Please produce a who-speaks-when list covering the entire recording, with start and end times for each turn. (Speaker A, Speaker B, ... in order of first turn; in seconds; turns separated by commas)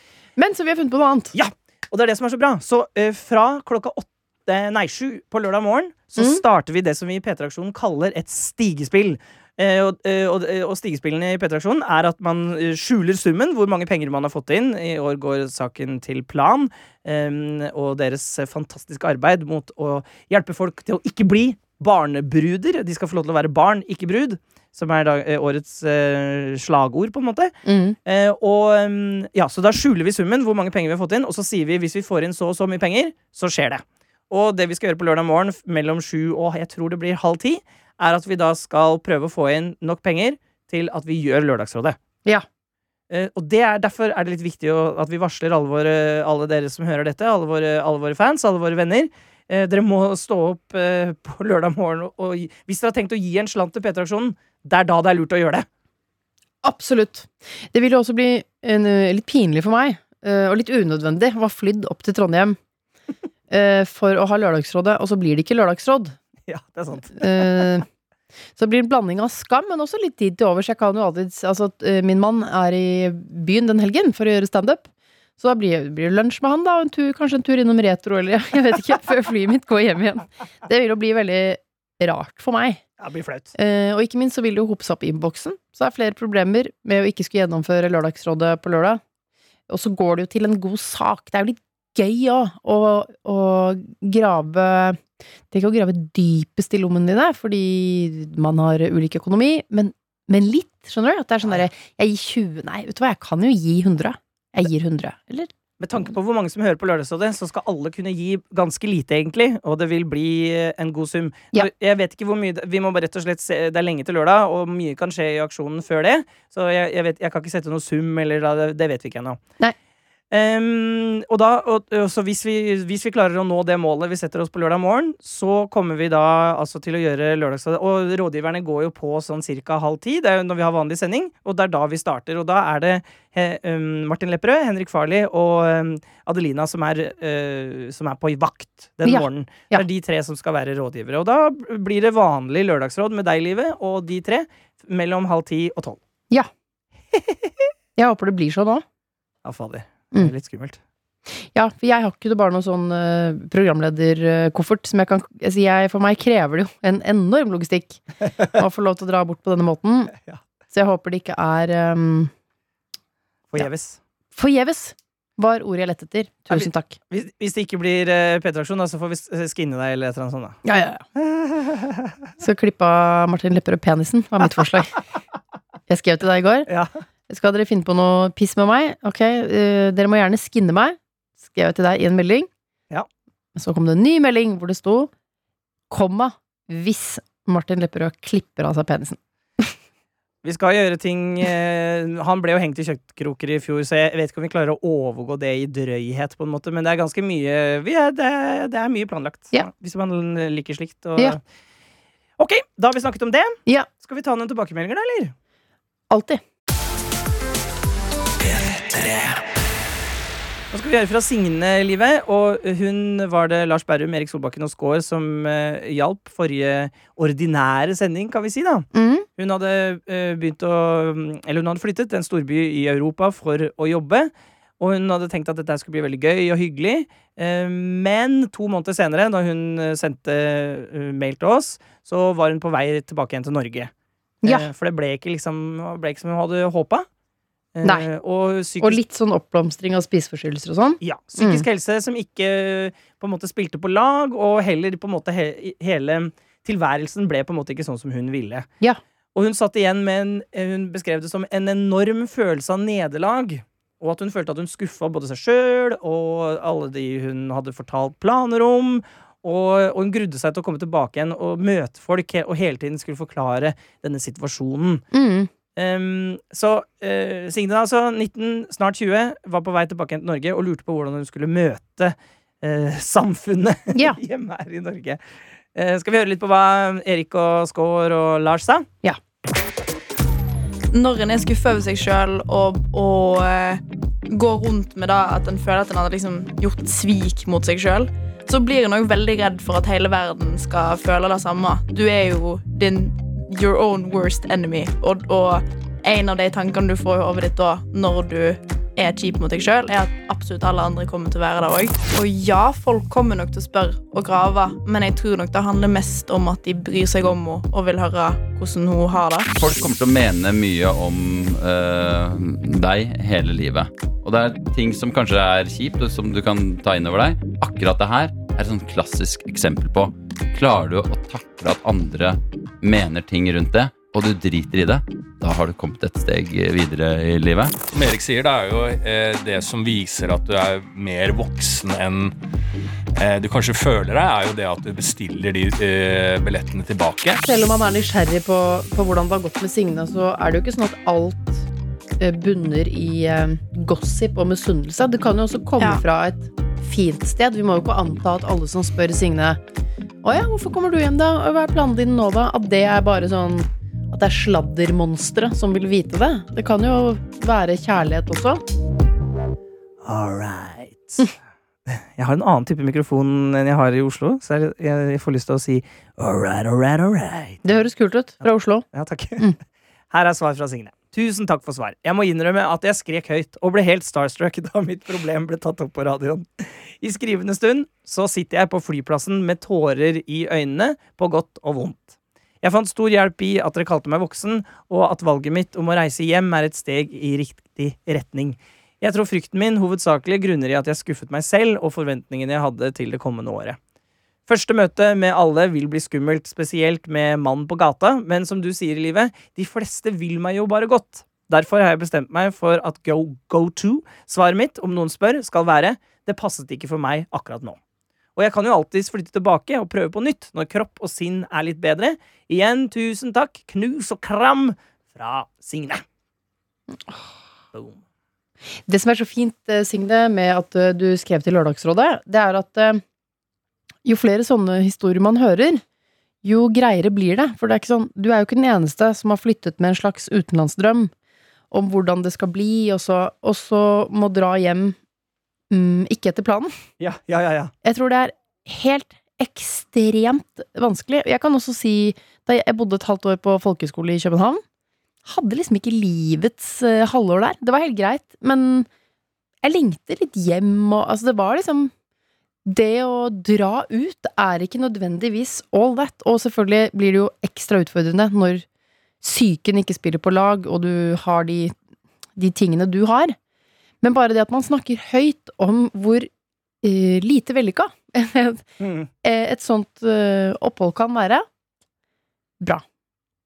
Speaker A: 0.4-1.3, Speaker B: 1.3-42.0, Speaker A: 6.2-6.4, Speaker A: 27.6-28.0, Speaker B: 43.1-55.6, Speaker A: 56.6-62.6, Speaker A: 63.5-66.2, Speaker B: 66.5-67.7, Speaker A: 67.1-67.8, Speaker A: 68.5-74.9, Speaker A: 75.4-82.8, Speaker B: 83.0-83.5, Speaker A: 83.5-89.0, Speaker A: 89.7-105.5, Speaker B: 105.8-119.4, Speaker B: 120.3-146.0, Speaker A: 139.0-139.8, Speaker B: 147.1-147.7, Speaker A: 147.9-148.8, Speaker B: 149.4-150.8, Speaker A: 151.3-160.1, Speaker A: 160.7-162.3, Speaker B: 163.5-164.0, Speaker A: 164.3-166.9, Speaker B: 166.5-170.6, Speaker A: 170.6-171.0, Speaker B: 171.2-172.1, Speaker A: 172.4-175.0, Speaker A: 175.9-176.7, Speaker B: 176.7-177.0, Speaker A: 177.3-182.5, Speaker A: 183.5-185.1, Speaker A: 185.9-189.7, Speaker B: 190.4-201.4, Speaker B: 202.4-205.3, Speaker A: 206.1-206.4, Speaker B: 210.7-233.9, Speaker A: 218.9-219.3, Speaker A: 234.4-234.7, Speaker B: 234.4-237.1, Speaker B: 237.7-239.0, Speaker A: 237.8-238.1, Speaker A: 238.8-241.6, Speaker B: 241.0-248.7, Speaker B: 249.3-265.0, Speaker A: 265.1-265.5, Speaker B: 265.8-275.2, Speaker A: 273.9-274.2, Speaker B: 275.7-278.9, Speaker C: 280.9-309.5, Speaker D: 309.5-327.7, Speaker E: 327.9-332.3, Speaker E: 333.1-337.4, Speaker A: 337.4-341.7, Speaker A: 342.2-349.6, Speaker A: 350.2-358.6, Speaker B: 360.0-361.2, Speaker B: 361.9-367.8, Speaker A: 367.6-368.9, Speaker B: 368.4-369.4, Speaker B: 370.1-393.8, Speaker B: 394.5-407.8, Speaker B: 408.4-416.0, Speaker A: 416.9-417.2, Speaker B: 417.7-418.0, Speaker A: 418.9-423.0, Speaker A: 424.0-425.8, Speaker A: 426.4-431.1, Speaker A: 431.7-435.0, Speaker A: 435.7-436.7, Speaker B: 437.0-437.7, Speaker A: 437.8-444.6, Speaker A: 445.2-448.9, Speaker A: 449.6-451.9, Speaker A: 452.6-458.6, Speaker A: 459.2-461.7, Speaker A: 462.4-463.4, Speaker A: 464.0-466.3, Speaker A: 466.8-468.6, Speaker B: 468.8-469.1, Speaker A: 469.2-471.4